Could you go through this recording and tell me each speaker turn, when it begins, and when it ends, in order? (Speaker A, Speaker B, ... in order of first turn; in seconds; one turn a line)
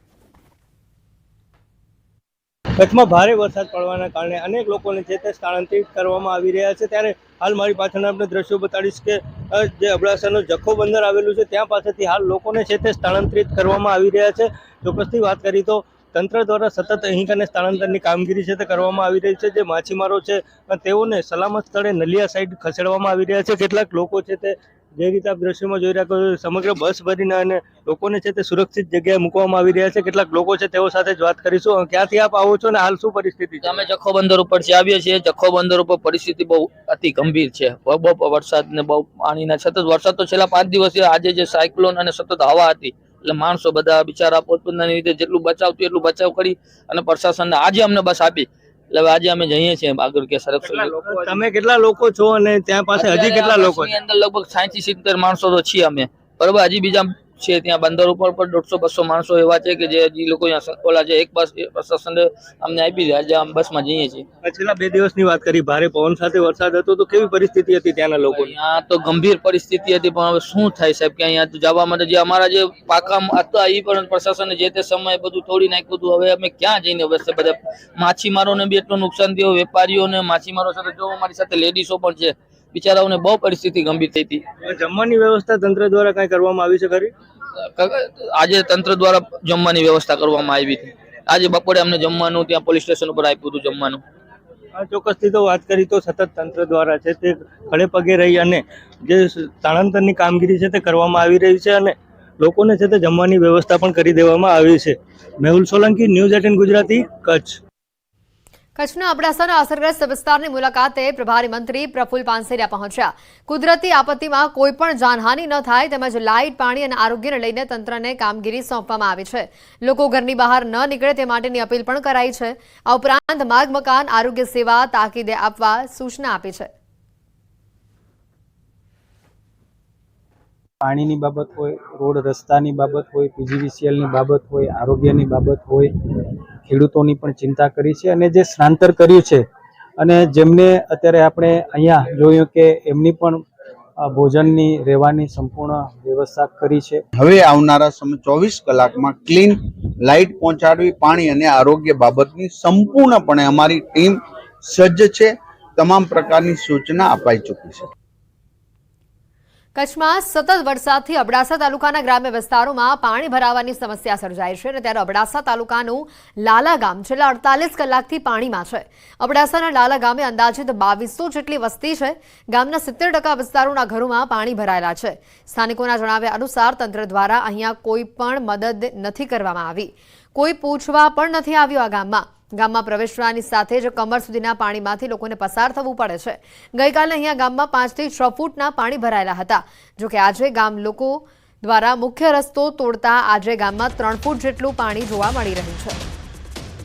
Speaker A: 2.8-33.8
Speaker B: 33.6-51.4
Speaker A: 50.6-53.9
Speaker B: 52.9-64.2
Speaker A: 64.4-68.5
Speaker B: 68.3-84.4
Speaker A: 84.6-87.1
Speaker B: 87.8-94.0
Speaker A: 94.8-107.6
Speaker C: 108.8-126.7
Speaker D: 130.8-135.9
Speaker D: 136.7-139.4
Speaker D: 140.0-143.4
Speaker D: 144.0-147.0
Speaker E: 147.2-157.8
Speaker C: 159.8-196.0